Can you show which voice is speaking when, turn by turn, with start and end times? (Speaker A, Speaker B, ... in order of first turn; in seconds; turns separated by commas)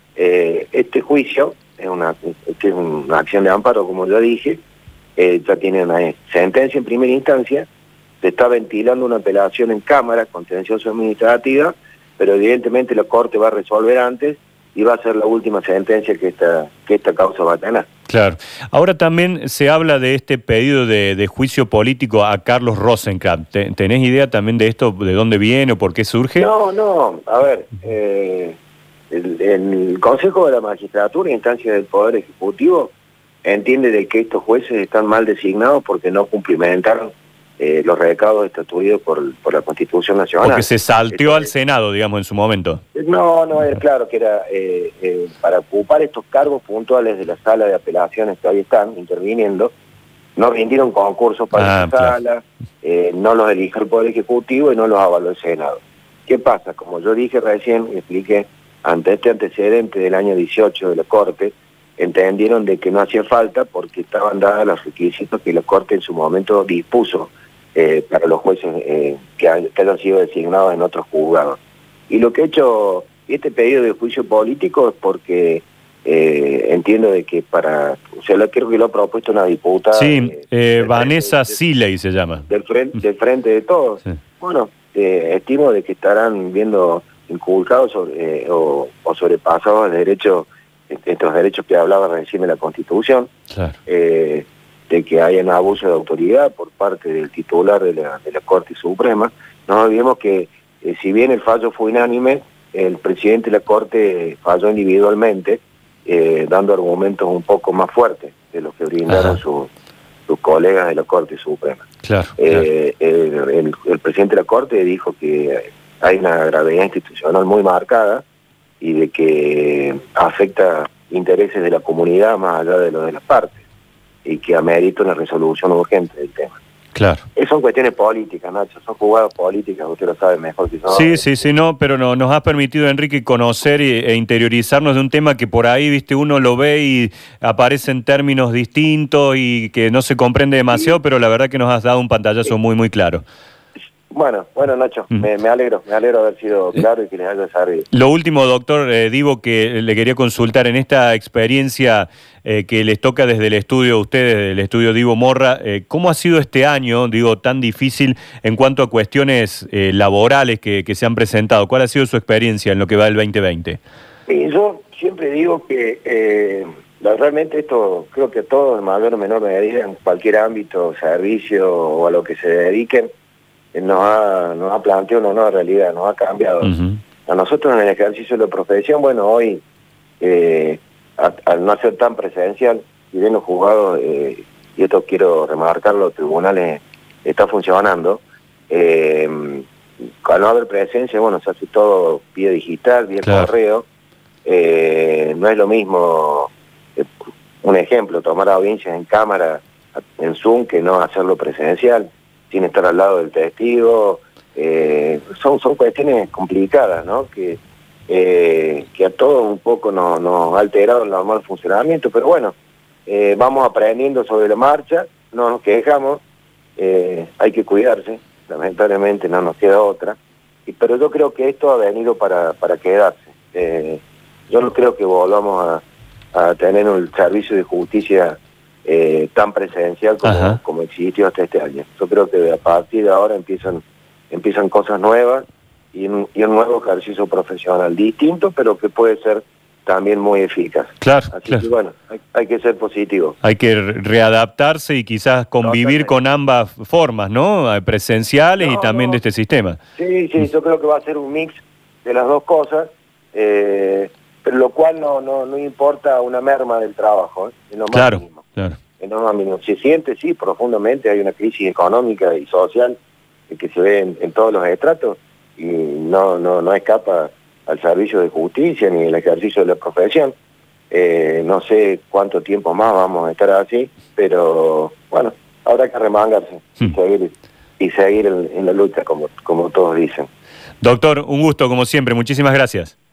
Speaker A: 0.1-4.6, Speaker A: 5.2-7.7, Speaker A: 8.2-17.9, Speaker B: 18.1-26.5, Speaker A: 26.4-28.6, Speaker A: 29.1-32.9, Speaker A: 33.4-41.5, Speaker B: 40.4-42.8, Speaker A: 42.9-49.7, Speaker A: 50.4-81.5, Speaker B: 51.5-52.1, Speaker B: 79.9-82.5, Speaker A: 82.5-93.3, Speaker B: 93.5-93.8, Speaker A: 93.8-109.7, Speaker B: 109.1-109.4, Speaker A: 110.3-111.9, Speaker B: 112.0-112.7, Speaker A: 112.4-118.2, Speaker A: 118.8-123.6, Speaker A: 124.2-126.6, Speaker B: 126.9-127.2, Speaker A: 127.3-131.3, Speaker B: 130.9-143.2, Speaker A: 144.1-147.9, Speaker B: 147.9-163.8, Speaker A: 164.3-173.1, Speaker A: 173.7-176.7, Speaker B: 176.6-177.0, Speaker A: 177.3-179.6, Speaker A: 180.2-189.7, Speaker A: 190.2-193.8, Speaker B: 193.2-193.5, Speaker A: 194.4-197.1, Speaker A: 197.6-216.2, Speaker A: 216.8-243.4, Speaker B: 230.2-230.6, Speaker B: 241.0-241.6, Speaker B: 243.4-249.8, Speaker A: 245.6-246.1, Speaker A: 248.6-249.2, Speaker A: 249.9-263.0, Speaker B: 257.9-258.8, Speaker A: 263.5-270.3, Speaker A: 270.9-280.3, Speaker B: 280.8-282.9